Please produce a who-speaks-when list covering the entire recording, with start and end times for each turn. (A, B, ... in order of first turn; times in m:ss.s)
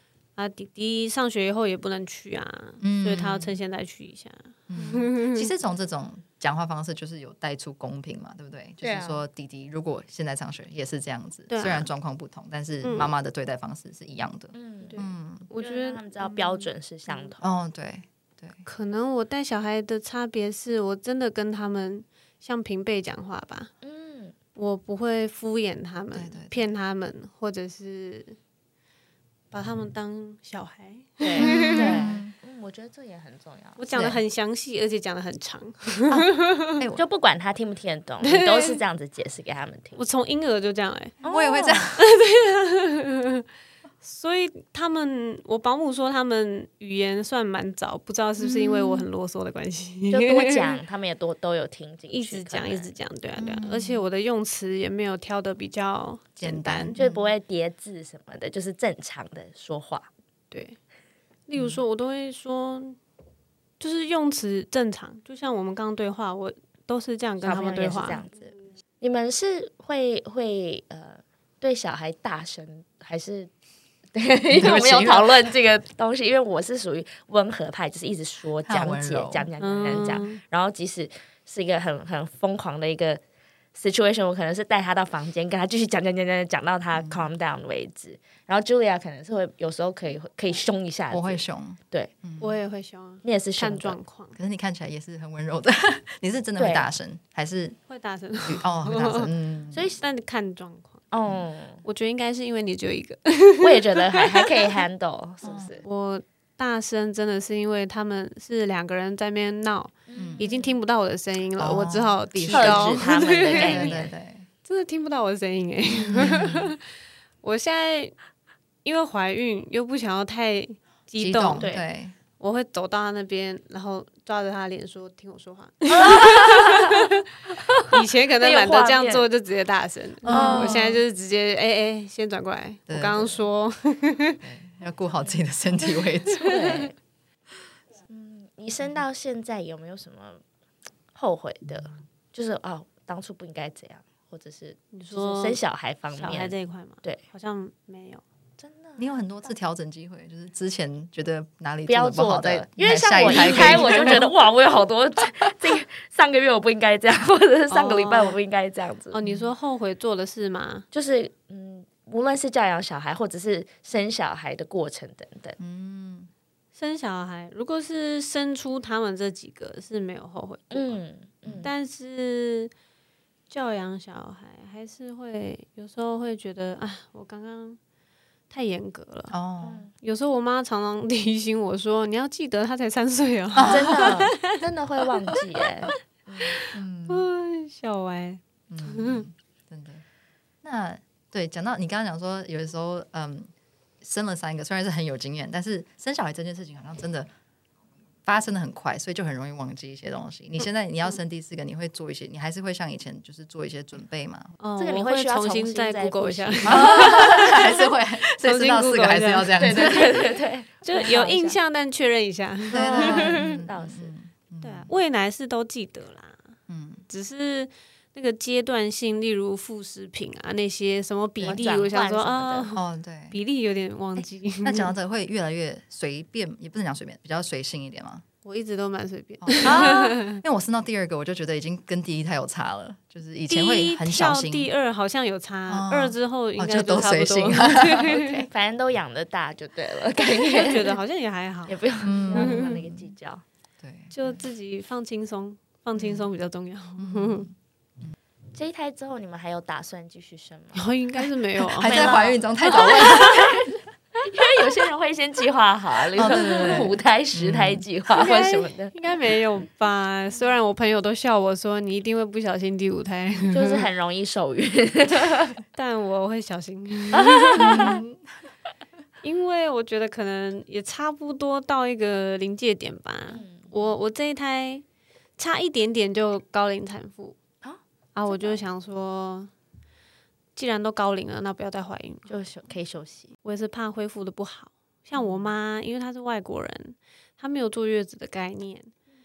0:00.4-0:05.5 A
0:02.8-0:03.6 B
0:04.7-0:15.5 B
0:08.8-0:09.2 C
0:11.5-0:11.9 A
0:12.8-0:13.1 A
0:14.5-0:15.0 C
0:14.8-0:17.3 A
0:15.6-0:17.5 C
0:17.4-0:18.6 B
0:18.6-0:23.7 A
0:23.8-0:24.4 C
0:24.6-0:28.4 A
0:26.1-0:26.7 B
0:29.5-0:32.0 A
0:31.2-0:33.8 C
0:31.4-0:32.3 B
0:33.8-0:36.8 A
0:33.9-0:34.2 B
0:36.1-0:37.0 B
0:37.0-0:40.0 C
0:38.2-0:38.8 A
0:40.0-0:43.4 A
0:41.2-0:41.9 C
0:41.2-0:42.0 B
0:44.0-0:50.8 A
0:48.4-0:49.1 B
0:50.1-0:53.0 C
0:52.1-0:57.0 A
0:53.4-0:54.0 B
0:56.4-0:57.3 B
0:57.0-1:00.1 C
1:00.5-1:00.8 A
1:01.5-1:03.0 A
1:01.5-1:01.8 B
1:03.8-1:08.2 A
1:07.4-1:13.5 C
1:14.1-1:23.2 C
1:14.5-1:15.5 B
1:18.6-1:19.5 B
1:19.6-1:20.4 A
1:23.7-1:32.1 C
1:26.9-1:27.3 B
1:31.1-1:32.5 B
1:32.4-1:34.4 A
1:33.2-1:34.0 C
1:34.3-1:37.8 B
1:36.6-1:36.9 C
1:37.9-1:39.3 A
1:38.4-1:39.9 B
1:39.7-1:40.0 C
1:40.0-1:41.0 A
1:41.1-1:41.8 C
1:41.8-1:44.8 A
1:43.6-1:45.8 C
1:45.4-1:45.7 B
1:45.8-1:54.0 A
1:50.1-1:50.8 C
1:50.1-1:50.5 B
1:51.6-1:54.5 B
1:52.5-1:54.1 C
1:54.6-1:56.8 A
1:56.1-1:56.8 B
1:57.4-1:58.1 A
1:58.8-2:01.7 A
2:01.2-2:02.1 B
2:01.6-2:01.8 C
2:02.4-2:14.4 A
2:05.9-2:09.3 C
2:10.2-2:11.0 B
2:10.3-2:10.9 C
2:12.9-2:13.4 B
2:14.4-2:16.9 B
2:16.4-2:16.9 C
2:18.1-2:20.4 C
2:21.1-2:27.2 C
2:24.9-2:28.2 A
2:28.6-2:29.0 C
2:29.0-2:34.3 B
2:31.9-2:39.2 C
2:33.2-2:34.2 A
2:37.7-2:38.4 A
2:39.1-2:40.8 A
2:39.2-2:39.5 B
2:40.9-2:45.6 C
2:45.6-2:46.3 B
2:46.7-2:51.0 A
2:50.7-2:51.7 C
2:51.4-2:51.7 B
2:51.6-2:52.7 A
2:53.5-2:57.8 A
2:58.5-2:59.3 A
2:59.3-2:59.8 B
2:59.6-2:59.9 C
3:00.0-3:04.6 A
3:03.5-3:04.1 B
3:03.7-3:06.6 C
3:05.1-3:09.2 A
3:06.7-3:07.2 B
3:08.7-3:10.0 B
3:10.6-3:13.5 B
3:14.0-3:17.3 B
3:18.2-3:24.5 B
3:24.6-3:27.8 A
3:24.8-3:27.4 C
3:26.6-3:30.3 B
3:28.4-3:29.9 A
3:29.6-3:31.6 C
3:30.8-3:33.6 A
3:32.7-3:34.9 B
3:32.7-3:34.1 C
3:34.6-3:36.4 A
3:36.7-3:37.0 B
3:37.1-3:44.9 A
3:41.4-3:42.7 C
3:42.7-3:43.4 B
3:44.6-3:48.2 B
3:48.4-3:50.4 A
3:49.4-3:54.7 B
3:53.5-3:58.4 A
3:55.7-3:58.5 B
3:58.5-4:01.0 C
4:00.2-4:02.8 A
4:01.6-4:03.4 C
4:02.0-4:03.1 B
4:03.8-4:04.4 B
4:04.1-4:07.4 A
4:06.0-4:06.3 B
4:07.0-4:08.1 B
4:08.5-4:10.8 C
4:10.7-4:12.2 A
4:11.6-4:13.8 B
4:11.8-4:18.9 C
4:16.2-4:17.8 B
4:18.1-4:23.9 A
4:23.5-4:25.6 C
4:25.7-4:27.9 A
4:27.1-4:28.0 C
4:27.6-4:28.2 B
4:29.2-4:34.8 A
4:33.3-4:33.7 C
4:35.4-4:37.4 A
4:37.6-4:38.6 C
4:38.1-4:39.5 A
4:40.6-4:42.3 A
4:42.2-4:43.3 C
4:43.4-4:48.9 A
4:45.2-4:45.5 B